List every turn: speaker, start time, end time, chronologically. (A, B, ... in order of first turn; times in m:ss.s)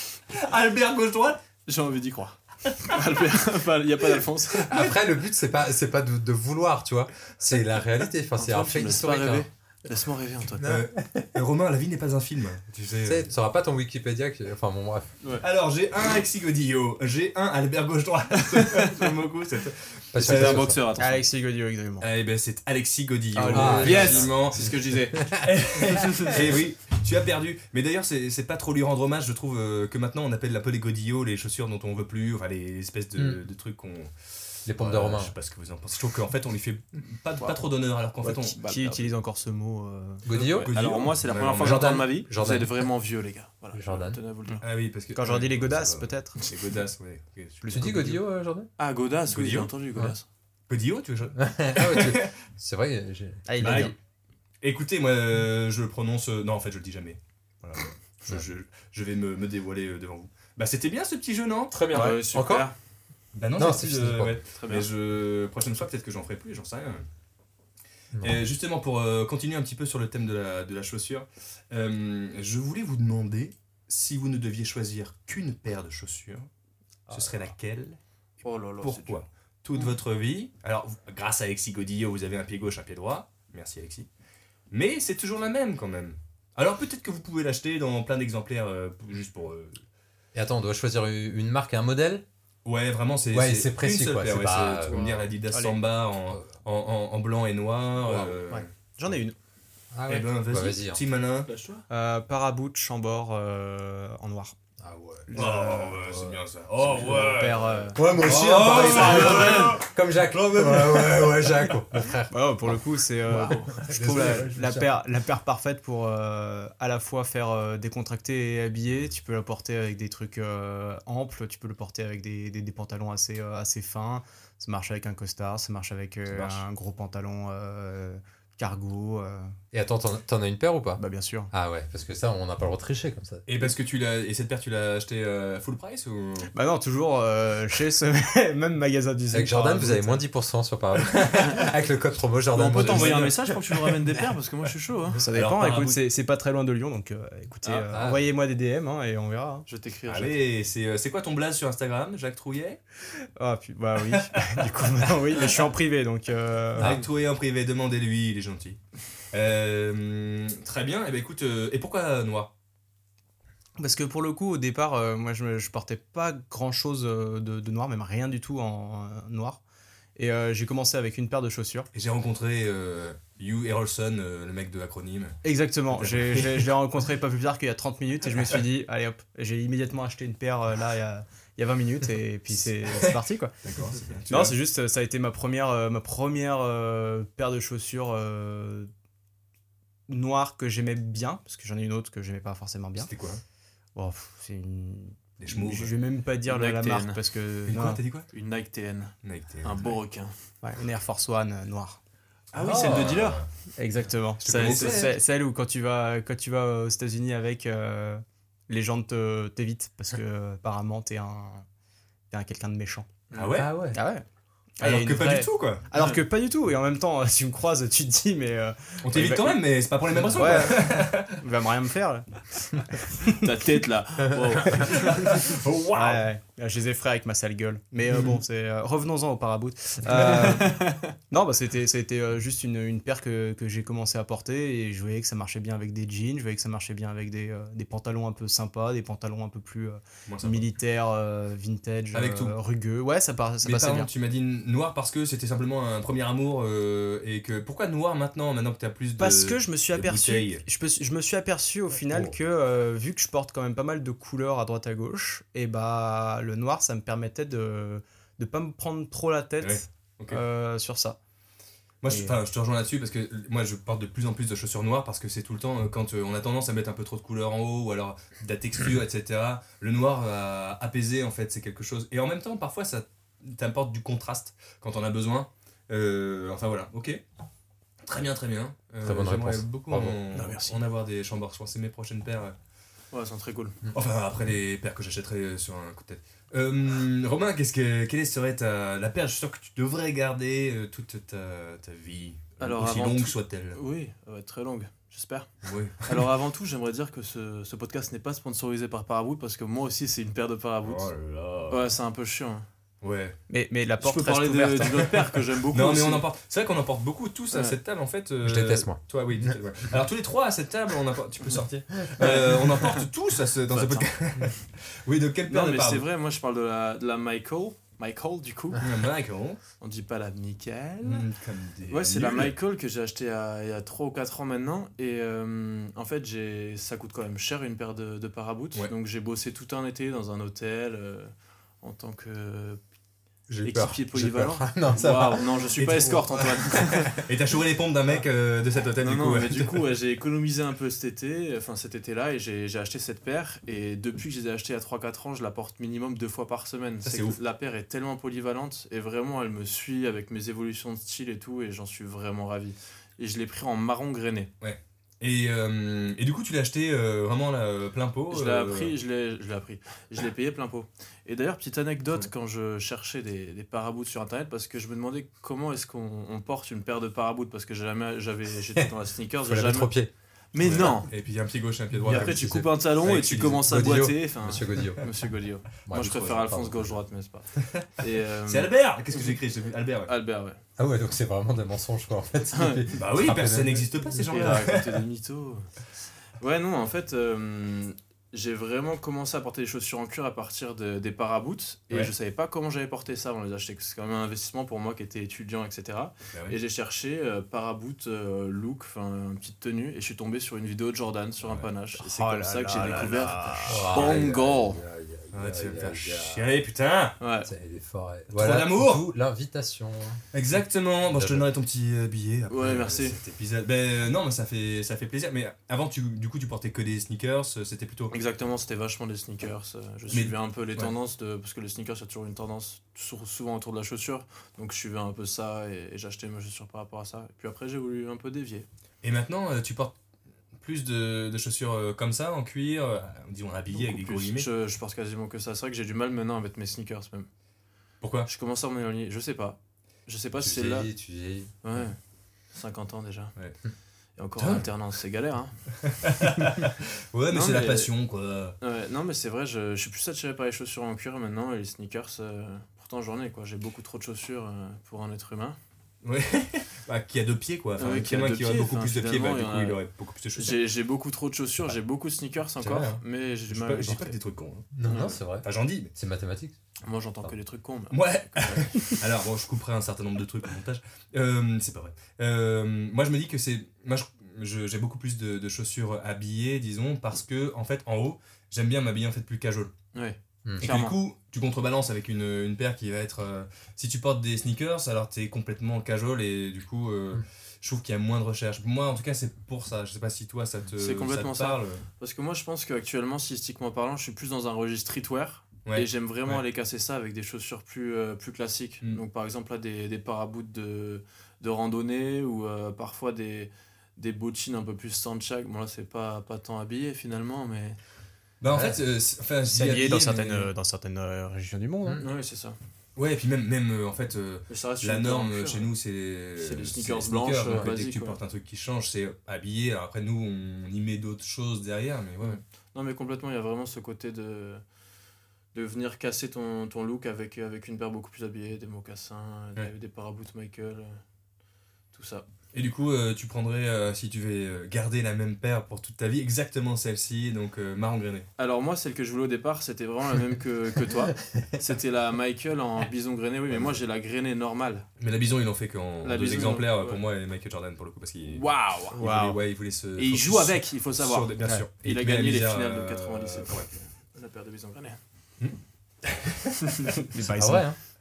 0:00.3-0:01.4 A
0:01.6-0:04.7 B
0:04.7-0:05.0 A
0:04.7-0:09.4 C
0:08.4-0:10.7 B
0:10.6-0:11.3 C
0:10.6-0:13.2 A
0:13.0-0:15.1 C
0:15.4-0:20.5 A
0:18.7-0:19.2 B
0:20.1-0:20.8 C
0:20.2-0:21.2 B
0:20.5-0:22.1 D
0:22.0-0:24.6 A
0:23.3-0:24.3 D
0:23.5-0:26.3 C
0:23.6-0:25.3 B
0:25.4-0:38.6 A
0:26.0-0:26.3 B
0:33.1-0:33.4 C
0:34.6-0:35.3 C
0:37.4-0:37.7 B
0:38.2-0:39.1 B
0:38.2-0:40.2 D
0:40.2-0:42.8 C
0:40.3-0:44.6 B
0:40.4-0:42.0 A
0:43.7-0:44.2 C
0:44.5-0:46.4 D
0:44.6-0:47.8 A
0:46.4-0:46.8 B
0:47.6-0:48.2 D
0:47.7-0:48.7 C
0:48.8-0:50.2 B
0:49.3-0:49.7 A
0:50.7-0:52.3 A
0:51.4-0:53.9 C
0:53.5-0:53.9 D
0:53.6-0:54.0 A
0:54.6-1:02.1 A
1:01.7-1:02.7 C
1:01.9-1:02.7 B
1:01.9-1:02.2 D
1:03.3-1:07.1 A
1:03.6-1:04.4 C
1:04.5-1:04.9 B
1:08.1-1:08.4 C
1:08.2-1:16.5 A
1:17.1-1:18.0 A
1:18.4-1:19.2 B
1:18.8-1:24.1 A
1:24.7-1:29.8 A
1:30.3-1:32.2 C
1:32.6-1:38.7 A
1:33.3-1:35.3 C
1:35.5-1:35.8 D
1:38.0-1:38.4 C
1:38.5-1:39.3 D
1:39.9-1:41.0 C
1:40.1-1:41.5 A
1:41.5-1:41.8 B
1:41.9-1:44.6 D
1:44.8-1:46.4 C
1:45.3-1:46.0 D
1:45.3-1:51.5 A
1:46.8-1:49.7 D
1:47.9-1:54.9 C
1:52.3-2:09.5 D
1:54.1-1:54.5 A
2:06.3-2:06.6 A
2:09.7-2:13.4 C
2:11.0-2:11.5 D
2:13.5-2:16.5 A
2:16.5-2:20.2 D
2:19.3-2:23.4 C
2:22.5-2:25.2 B
2:22.7-2:24.2 A
2:25.2-2:29.6 D
2:25.3-2:26.0 A
2:27.9-2:28.2 C
2:29.7-2:30.4 B
2:30.1-2:32.8 A
2:33.4-2:37.0 D
2:36.8-2:38.8 A
2:39.3-2:42.5 A
2:43.8-2:49.6 D
2:50.2-2:51.9 D
2:51.9-2:55.4 A
2:55.4-3:03.6 D
2:55.9-2:56.7 A
3:02.9-3:04.5 A
3:04.3-3:08.9 D
3:10.1-3:13.1 D
3:13.0-3:13.4 A
3:13.9-3:18.0 D
3:15.4-3:15.9 A
3:16.4-3:17.2 B
3:17.7-3:18.3 A
3:18.3-3:20.5 B
3:19.2-3:20.0 A
3:20.6-3:22.0 D
3:22.5-3:23.5 A
3:22.6-3:23.4 B
3:22.6-3:23.2 D
3:23.8-3:31.6 D
3:24.4-3:25.1 A
3:24.4-3:25.1 B
3:32.3-3:33.1 D
3:33.3-3:33.6 B
3:33.3-3:33.9 A
3:33.6-3:34.0 C
3:33.9-3:34.2 D
3:34.8-3:39.6 D
3:34.8-3:35.9 A
3:35.9-3:36.2 B
3:39.0-3:41.4 A
3:40.2-3:43.2 D
3:43.4-3:45.1 B
3:44.7-3:46.2 A
3:45.3-4:04.1 D
3:48.1-3:48.4 A
3:50.1-3:50.7 A
3:50.6-3:51.0 B
4:00.2-4:00.6 A
4:02.1-4:02.5 A
4:03.6-4:10.6 A
4:09.2-4:21.2 D
4:12.1-4:12.3 A
4:19.6-4:20.4 A
4:22.0-4:37.2 A
4:22.1-4:22.4 D
4:38.0-4:42.5 A
4:39.0-4:40.2 C
4:40.3-4:40.7 B
4:43.1-4:43.8 B
4:43.9-4:53.8 A
4:52.6-5:01.1 B
4:55.6-4:56.1 A
5:00.8-5:01.8 A
5:01.7-5:02.6 B
5:03.0-5:03.4 A
5:03.5-5:05.1 D
5:04.0-5:06.2 B
5:04.8-5:16.0 A
5:07.5-5:07.8 B
5:08.4-5:09.6 C
5:12.2-5:13.0 B
5:13.7-5:14.6 B
5:15.5-5:19.0 B
5:18.8-5:19.6 A
5:19.8-5:21.3 B
5:21.0-5:22.5 A
5:21.9-5:32.8 B
5:33.5-5:35.4 C
5:33.6-5:37.2 B
5:35.8-5:36.6 A
5:37.2-5:39.8 A
5:39.0-5:54.5 B
5:47.0-5:47.4 A
5:54.6-5:58.9 A
5:58.3-6:11.1 B
6:09.4-6:10.1 C
6:10.6-6:12.4 A
6:12.0-6:12.8 C
6:12.0-6:19.4 B
6:13.0-6:13.6 A
6:13.5-6:15.0 C
6:15.8-6:17.0 C
6:18.4-6:20.1 A
6:20.1-6:20.6 B
6:20.8-6:24.1 C
6:22.5-6:22.8 B
6:22.9-6:25.0 A
6:24.3-6:44.8 B
6:42.0-6:43.9 D
6:42.8-6:44.2 A
6:43.7-6:46.5 C
6:45.3-6:47.2 A
6:47.2-6:47.5 B
6:47.4-6:50.2 C
6:48.3-6:49.0 A
6:50.3-6:58.2 A
6:51.1-6:51.5 C
6:52.5-6:53.2 B
6:58.1-7:08.7 B
7:00.1-7:00.9 A
7:09.0-7:09.9 A
7:10.6-7:14.5 A
7:13.7-7:17.3 B
7:18.0-7:18.3 A
7:18.3-7:20.9 B
7:20.4-7:21.5 C
7:21.6-7:22.0 B
7:22.5-7:23.3 B
7:24.2-7:25.6 B
7:24.4-7:24.6 A
7:25.8-7:28.6 A
7:27.3-7:27.9 B
7:28.6-7:35.6 B
7:36.0-7:40.6 A
7:37.8-7:39.8 B
7:40.4-7:44.2 B
7:42.6-7:44.7 A
7:44.7-7:46.6 C
7:44.9-7:45.2 B
7:45.4-7:45.9 A
7:46.8-7:49.0 B
7:47.9-7:59.7 A
7:59.9-8:01.0 B
8:00.6-8:11.8 A
8:10.8-8:27.8 B
8:15.6-8:16.4 A
8:28.4-8:30.5 A
8:28.5-8:28.8 C
8:29.5-8:32.0 D
8:32.0-8:32.6 B
8:33.0-8:42.4 A
8:34.5-8:35.7 B
8:36.4-8:38.2 B
8:42.2-8:44.6 B
8:45.5-8:51.0 B
8:51.9-8:52.2 B
8:52.5-8:58.3 A
8:58.4-9:04.9 B
9:05.0-9:13.7 A
9:06.0-9:07.0 B
9:08.3-9:09.0 B
9:09.0-9:09.4 D
9:10.0-9:15.0 B
9:15.4-9:17.0 A
9:17.1-9:17.7 D
9:17.4-9:17.8 C